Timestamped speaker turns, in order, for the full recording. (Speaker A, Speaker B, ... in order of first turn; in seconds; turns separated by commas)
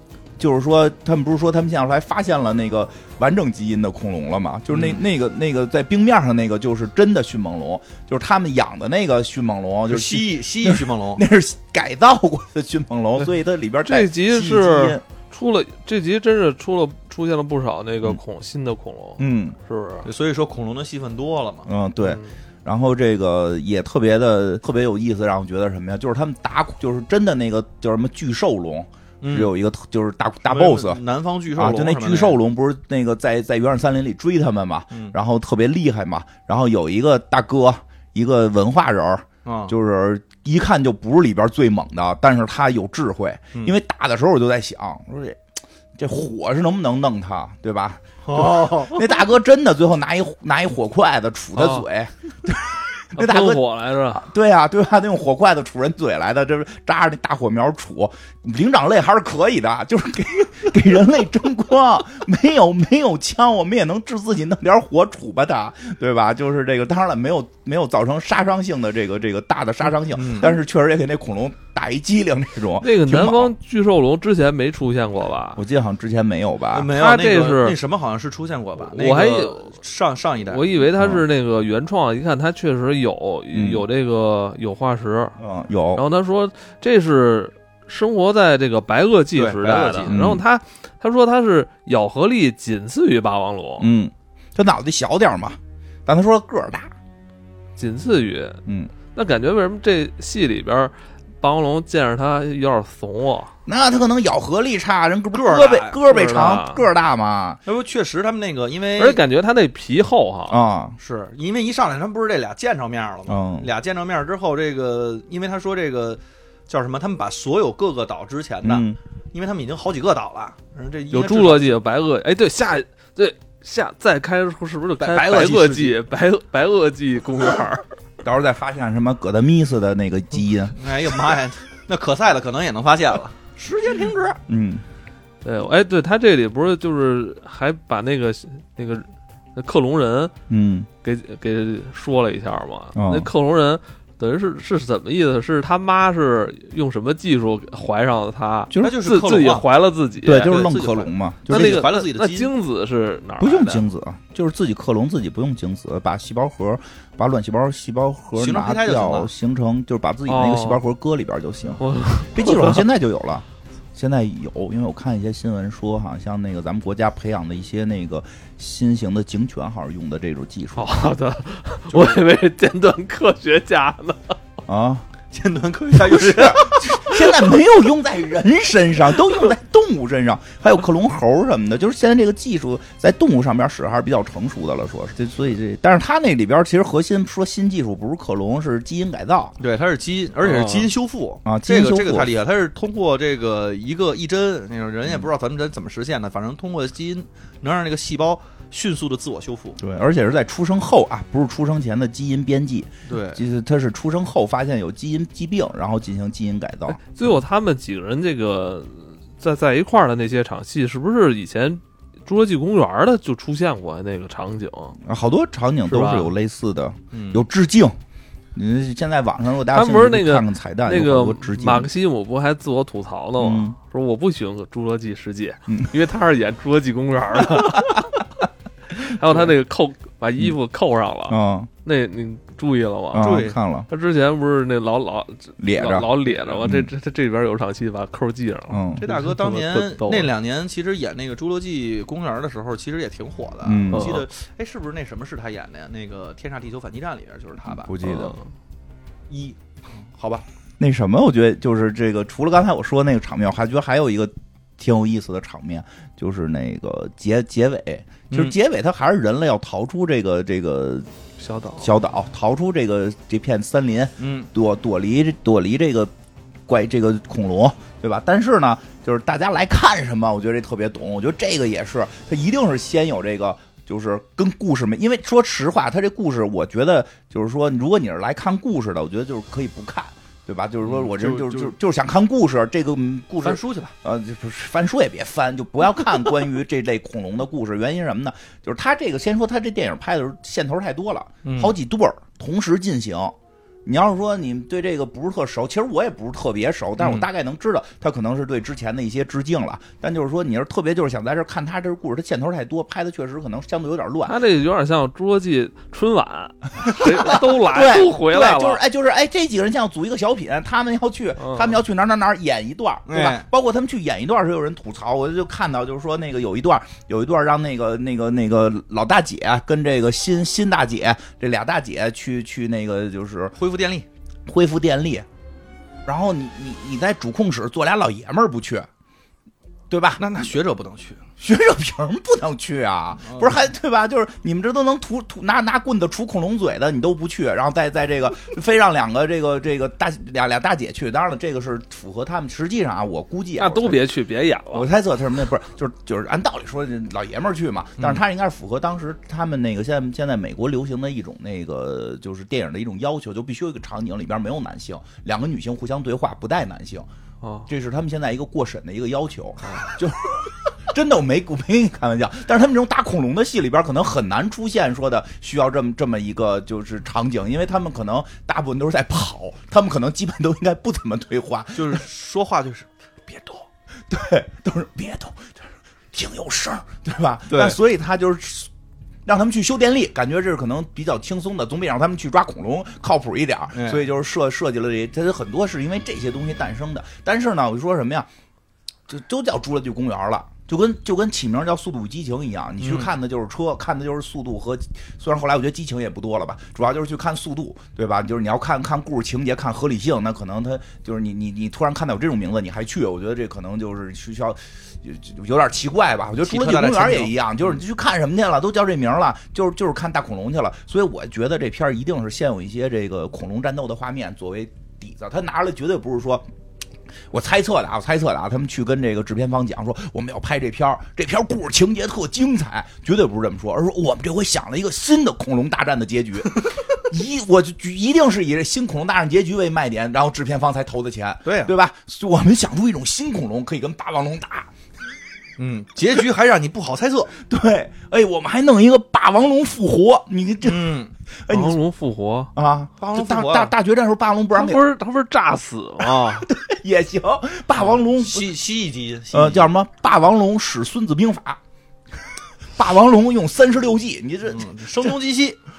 Speaker A: 0.4-15.0, Speaker B: 4.7-5.0, Speaker B: 9.9-11.2, Speaker C: 13.8-20.1, Speaker A: 19.2-19.6, Speaker B: 20.0-21.7, Speaker A: 21.7-31.0, Speaker C: 22.0-22.3, Speaker B: 29.2-29.5, Speaker B: 30.4-32.4, Speaker A: 31.5-45.4, Speaker B: 39.4-39.7, Speaker A: 46.0-73.5, Speaker B: 48.2-49.2, Speaker C: 51.6-51.8, Speaker C: 53.1-54.2, Speaker B: 70.1-70.6, Speaker C: 72.8-75.6, Speaker A: 75.5-76.9, Speaker B: 76.7-80.7, Speaker C: 76.9-77.8, Speaker C: 78.9-79.7, Speaker C: 80.5-85.3, Speaker A: 81.0-81.2, Speaker A: 83.5-83.8, Speaker A: 85.4-86.0, Speaker C: 85.9-93.9, Speaker B: 89.3-90.2, Speaker A: 90.1-90.4, Speaker A: 93.8-96.9, Speaker C: 97.8-98.6, Speaker A: 98.7-98.9, Speaker C: 99.1-103.5, Speaker A: 103.7-107.6, Speaker B: 105.3-106.0, Speaker C: 106.1-106.8, Speaker B: 107.6-109.2, Speaker C: 109.0-110.6, Speaker A: 110.5-111.0, Speaker B: 111.0-121.8, Speaker A: 113.3-113.7, Speaker A: 118.6-119.0, Speaker C: 121.1-127.8, Speaker B: 125.0-126.0, Speaker A: 128.2-130.8, Speaker B: 130.7-134.4, Speaker A: 134.5-134.8, Speaker C: 135.4-140.3, Speaker A: 140.5-140.9, Speaker C: 141.0-150.6, Speaker A: 142.9-143.3, Speaker A: 148.7-149.0, Speaker B: 148.8-149.7, Speaker A: 150.2-151.8, Speaker B: 150.3-152.5, Speaker C: 151.5-153.8, Speaker A: 153.4-171.0, Speaker B: 158.3-159.3, Speaker C: 160.3-160.8, Speaker C: 161.8-162.8, Speaker C: 170.8-174.3, Speaker A: 174.7-175.1, Speaker B: 175.3-177.6, Speaker A: 175.9-189.6, Speaker B: 189.6-199.8, Speaker C: 190.4-190.9, Speaker A: 191.4-192.3, Speaker A: 199.8-207.0, Speaker B: 203.1-203.4, Speaker C: 206.9-215.0, Speaker A: 215.0-217.9, Speaker C: 215.9-216.3, Speaker B: 217.1-217.4, Speaker A: 218.5-221.9, Speaker C: 219.7-228.2, Speaker A: 223.4-223.8, Speaker C: 229.0-240.3, Speaker A: 231.3-231.7, Speaker A: 233.1-233.9, Speaker B: 233.2-233.6, Speaker A: 235.6-236.1, Speaker A: 236.6-236.9, Speaker A: 238.7-239.0, Speaker B: 239.0-247.9, Speaker A: 243.6-244.2, Speaker C: 243.9-244.2, Speaker A: 247.7-248.4, Speaker C: 248.0-248.4, Speaker B: 249.3-250.4, Speaker A: 250.8-261.1, Speaker C: 261.4-261.9, Speaker A: 261.8-266.1, Speaker B: 264.2-264.5, Speaker A: 266.7-304.4, Speaker B: 280.8-281.7, Speaker B: 283.4-283.9, Speaker B: 291.4-291.7, Speaker B: 297.0-297.3, Speaker C: 304.2-308.8, Speaker A: 307.0-323.5, Speaker C: 311.4-311.8, Speaker B: 313.1-313.5, Speaker B: 323.6-324.1, Speaker A: 324.5-325.3, Speaker A: 326.1-328.9, Speaker A: 329.9-330.5, Speaker B: 330.2-331.2, Speaker A: 331.4-344.0, Speaker B: 333.2-333.6, Speaker C: 343.6-344.9, Speaker A: 344.7-357.1, Speaker B: 348.0-348.2, Speaker C: 357.4-357.7, Speaker A: 357.7-372.0, Speaker B: 371.7-372.9, Speaker A: 374.1-378.7, Speaker B: 377.5-377.8, Speaker A: 379.2-388.3, Speaker B: 383.7-384.0, Speaker A: 389.1-416.5, Speaker B: 392.8-393.1, Speaker B: 406.4-407.8, Speaker A: 417.3-434.7, Speaker B: 431.4-431.7, Speaker B: 435.6-437.3, Speaker A: 437.4-441.8, Speaker B: 440.6-441.1, Speaker C: 441.5-442.5, Speaker A: 442.5-444.8, Speaker B: 443.0-443.7, Speaker C: 444.5-446.4, Speaker A: 446.1-448.5, Speaker B: 447.8-449.7, Speaker A: 449.3-451.6, Speaker A: 452.8-455.2, Speaker B: 454.5-455.6